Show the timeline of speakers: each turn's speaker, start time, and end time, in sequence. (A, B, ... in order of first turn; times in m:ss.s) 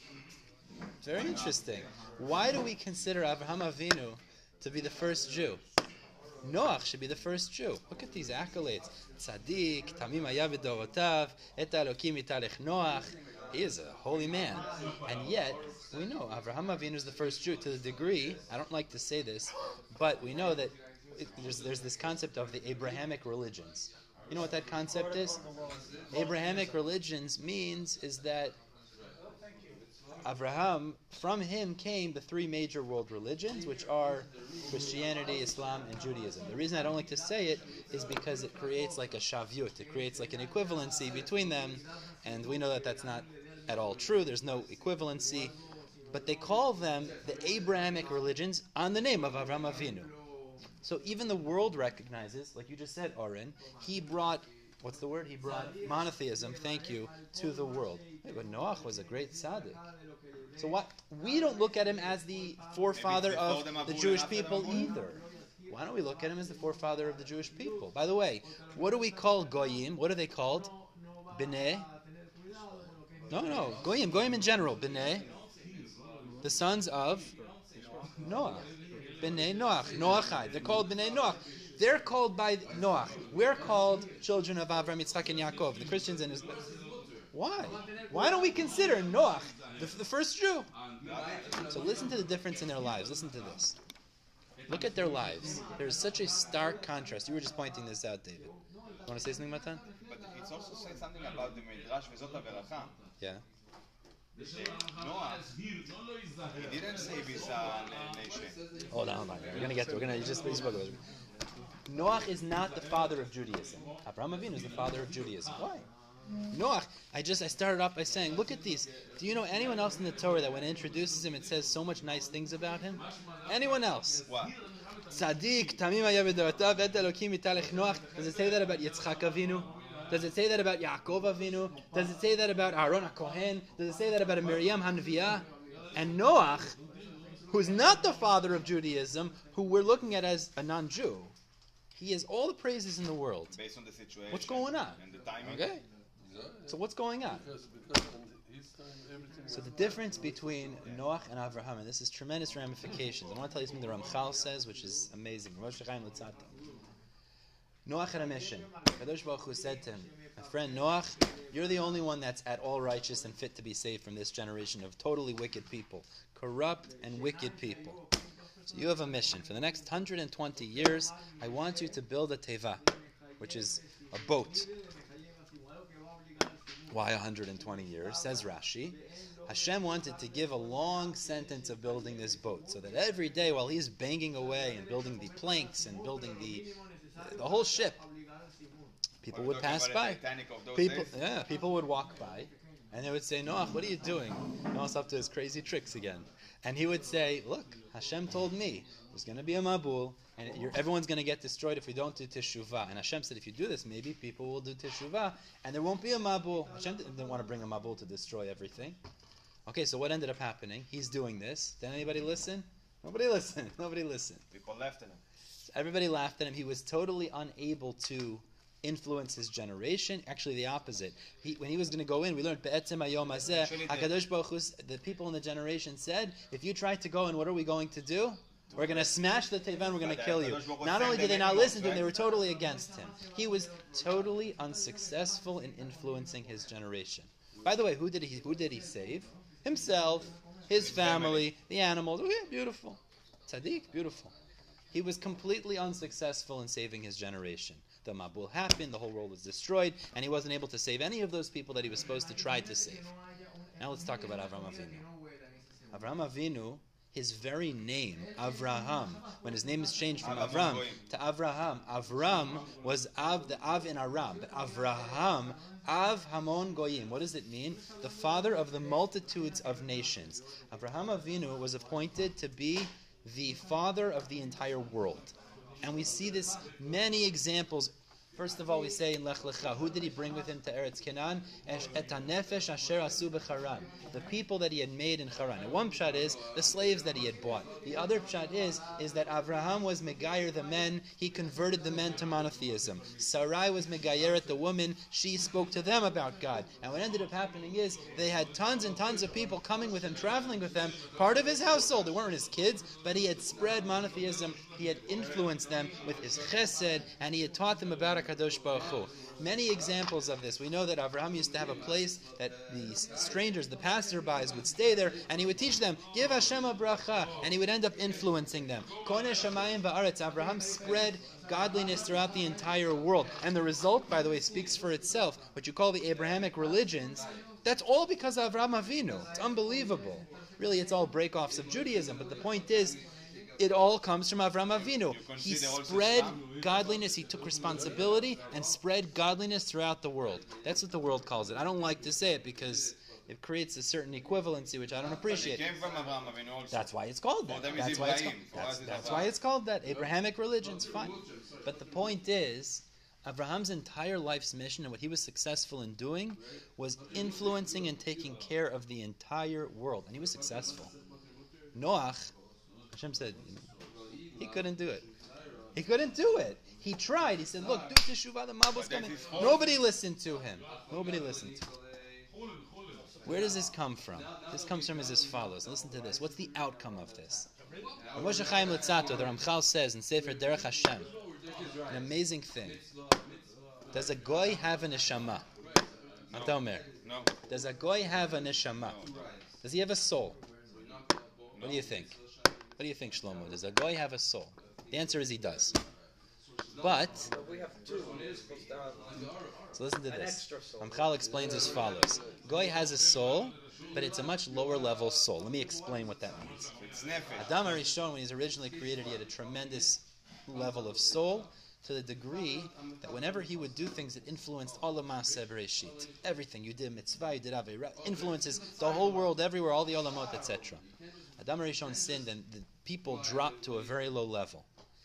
0:01.0-0:05.6 A
0:01.1-0:01.9 B
0:06.4-0:25.4 A
0:26.1-0:28.6 A
0:30.2-0:45.5 A
0:46.1-0:50.1 A
0:50.8-0:59.8 A
1:00.6-1:10.7 A
1:02.9-1:04.9 B
1:11.3-1:11.9 A
1:13.3-1:15.2 A
1:16.4-1:17.3 A
1:18.2-1:18.7 A
1:19.2-1:26.5 A
1:27.3-1:30.7 A
1:31.0-1:31.5 B
1:31.7-1:33.8 A
1:34.7-1:38.5 A
1:39.0-1:39.8 A
1:40.1-1:43.0 B
1:44.5-1:45.4 B
1:46.5-1:48.6 B
1:48.9-1:51.0 A
1:51.9-1:55.8 A
1:56.5-2:04.2 A
2:04.3-2:04.5 B
2:05.1-2:16.7 A
2:17.5-2:21.3 A
2:21.9-2:23.6 A
2:23.5-2:25.7 B
2:24.3-2:25.8 A
2:26.2-2:26.8 C
2:26.7-2:27.4 A
2:27.3-2:30.0 C
2:29.5-2:36.5 A
2:37.8-2:48.0 A
2:48.7-2:52.8 A
2:53.4-2:54.7 A
2:56.9-3:06.7 A
3:07.2-3:08.0 A
3:09.2-3:10.2 A
3:09.3-3:11.1 B
3:10.7-3:29.0 A
3:29.6-3:34.4 A
3:34.5-3:35.2 B
3:35.7-4:04.3 A
3:43.4-3:44.2 B
3:48.7-3:49.2 B
3:50.0-3:52.2 B
4:00.8-4:01.5 B
4:04.9-4:13.1 A
4:13.8-4:15.0 A
4:15.9-5:33.0 A
4:20.2-4:21.0 B
5:33.6-5:45.6 A
5:34.7-5:36.4 B
5:45.3-5:46.9 B
5:46.7-6:00.9 A
5:47.5-5:49.3 B
6:01.7-6:02.3 A
6:02.9-6:03.6 A
6:04.4-6:05.0 A
6:05.7-6:11.7 A
6:08.7-6:09.8 B
6:13.2-6:17.5 A
6:18.2-6:21.1 A
6:21.9-6:22.8 A
6:23.9-6:25.4 A
6:26.3-6:27.3 B
6:26.3-6:26.9 A
6:27.5-6:29.1 A
6:28.8-6:29.3 B
6:29.6-6:30.4 A
6:31.5-6:31.9 B
6:31.6-6:32.1 A
6:32.8-6:35.8 A
6:36.8-6:37.3 A
6:39.7-6:46.7 A
6:46.8-6:47.5 B
6:47.4-7:00.8 A
7:01.4-7:04.6 A